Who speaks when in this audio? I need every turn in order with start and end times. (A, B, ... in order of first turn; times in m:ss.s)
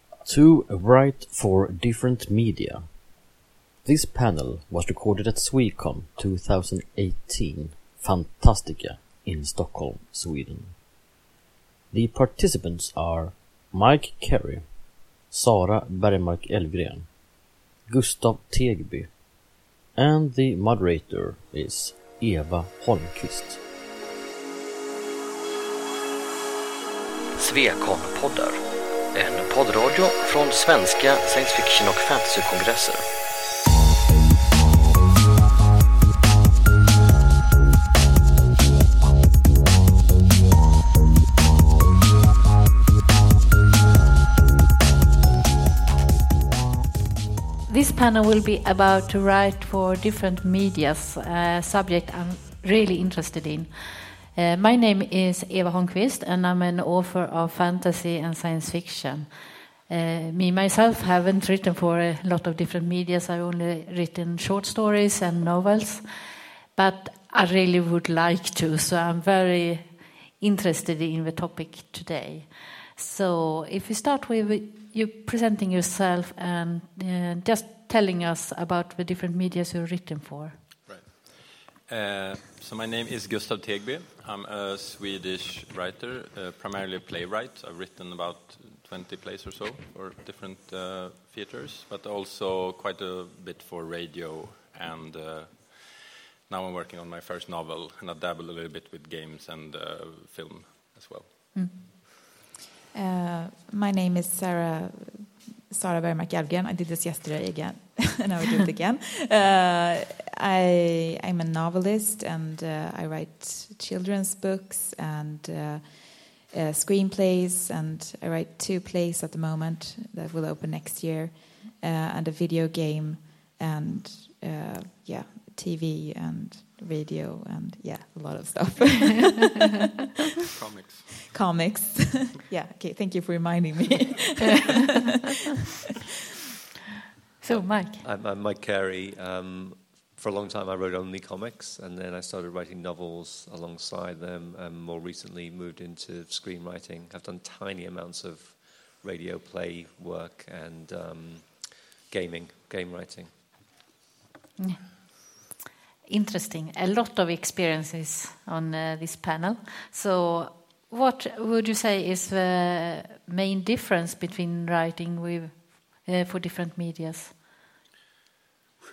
0:00.2-0:03.3 A
0:03.8-0:10.8 A
0:11.9-0:23.6 A
0:27.4-0:28.6 B
0:29.1-0:33.1 B
0:47.7-1:20.6 C
1:20.9-1:41.3 D
1:42.9-2:09.5 E
2:10.6-2:11.3 D
2:11.3-2:14.8 E
2:17.4-2:18.0 C
2:17.5-2:33.4 F
2:34.6-2:34.9 C
2:36.1-2:47.4 C